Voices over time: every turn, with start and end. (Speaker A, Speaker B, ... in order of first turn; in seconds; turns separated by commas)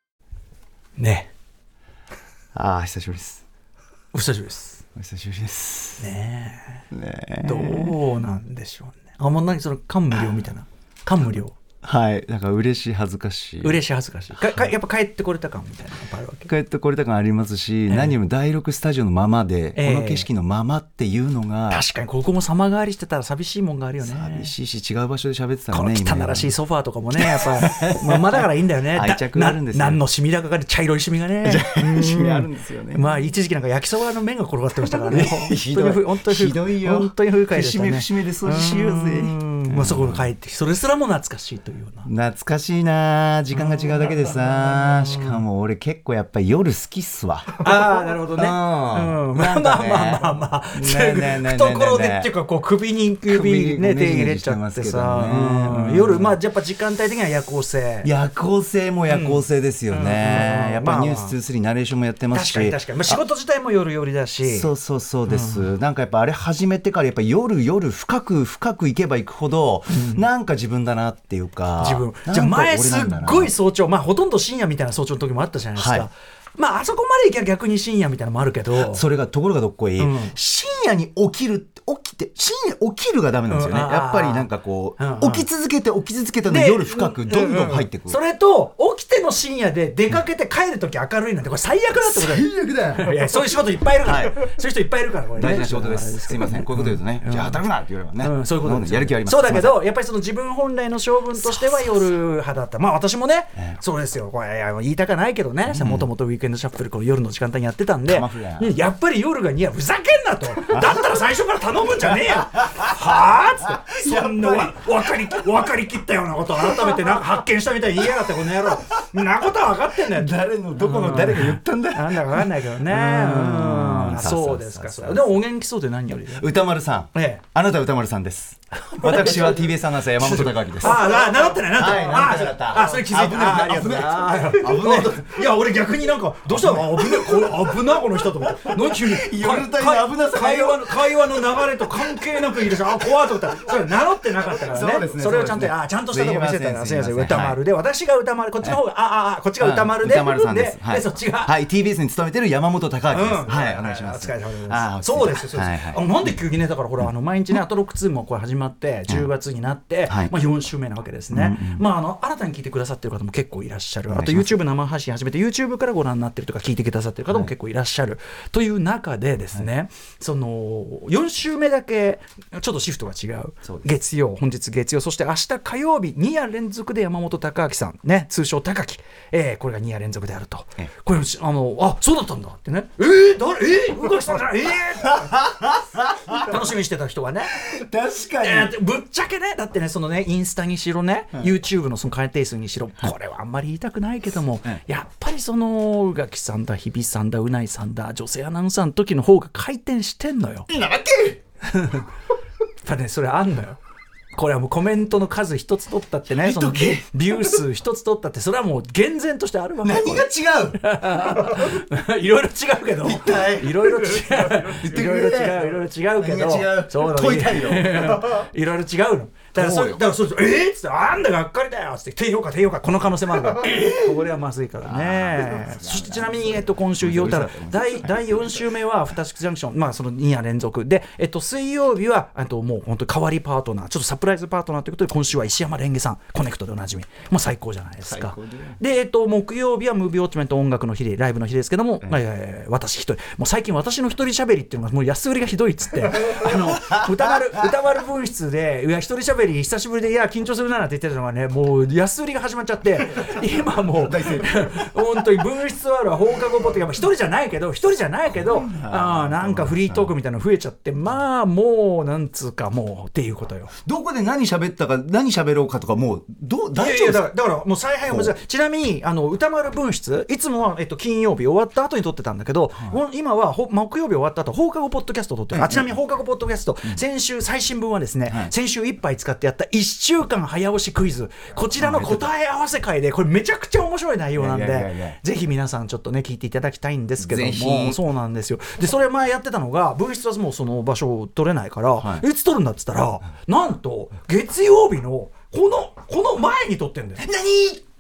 Speaker A: 1.0-1.3, Speaker B: 2.5-3.4, Speaker A: 4.1-4.8, Speaker B: 5.0-6.1, Speaker A: 6.0-6.8, Speaker B: 6.9-8.0, Speaker A: 7.4-11.6, Speaker B: 11.8-13.8, Speaker A: 13.6-16.5, Speaker B: 14.3-14.7, Speaker B: 16.4-21.8, Speaker A: 17.9-18.2, Speaker A: 19.8-20.3, Speaker A: 21.7-24.5, Speaker B: 24.0-26.6, Speaker A: 25.7-42.1, Speaker B: 27.2-30.0, Speaker B: 31.4-33.2, Speaker B: 34.8-40.3, Speaker B: 42.1-52.3, Speaker A: 45.1-45.4, Speaker A: 47.6-58.1, Speaker B: 53.3-56.4, Speaker B: 58.0-63.2, Speaker A: 59.1-61.4, Speaker A: 62.3-64.7, Speaker B: 64.4-73.5, Speaker A: 65.3-65.7, Speaker A: 70.0-70.2, Speaker A: 71.8-79.0, Speaker B: 75.8-76.1, Speaker B: 78.7-88.2, Speaker A: 80.0-80.3, Speaker A: 83.5-85.5, Speaker A: 86.5-97.6, Speaker B: 92.0-93.2, Speaker B: 94.0-94.5, Speaker B: 95.4-99.8, Speaker A: 98.2-126.5, Speaker B: 105.7-106.1, Speaker B: 108.1-108.8, Speaker B: 112.6-115.5, Speaker B: 116.6-117.3, Speaker B: 118.3-118.8, Speaker B: 120.0-125.5, Speaker B: 126.3-135.5, Speaker A: 127.1-127.4, Speaker A: 128.8-129.7, Speaker A: 130.2-151.5, Speaker B: 136.5-142.8, Speaker B: 144.5-147.6, Speaker B: 149.6-156.3, Speaker A: 153.1-185.5, Speaker B: 160.1-160.3, Speaker B: 161.3-161.8, Speaker B: 164.1-164.6, Speaker B: 173.6-173.9, Speaker B: 185.0-186.5, Speaker A: 186.3-187.6, Speaker B: 187.6-188.7, Speaker A: 188.4-200.7, Speaker B: 200.7-201.4, Speaker A: 201.6-202.1, Speaker A: 202.8-203.8, Speaker A: 204.3-263.7, Speaker B: 206.4-207.6, Speaker B: 209.8-210.8, Speaker B: 213.0-218.4, Speaker B: 219.5-220.1, Speaker B: 223.5-224.3, Speaker B: 224.8-228.7, Speaker B: 238.1-238.8, Speaker B: 246.3-247.4, Speaker B: 253.9-254.8, Speaker B: 258.3-260.1, Speaker B: 263.9-267.3, Speaker A: 266.7-297.8, Speaker B: 268.1-268.4, Speaker B: 275.5-275.9, Speaker B: 278.3-278.5, Speaker B: 281.8-282.3, Speaker B: 284.4-285.2, Speaker B: 287.2-288.0, Speaker B: 292.0-292.3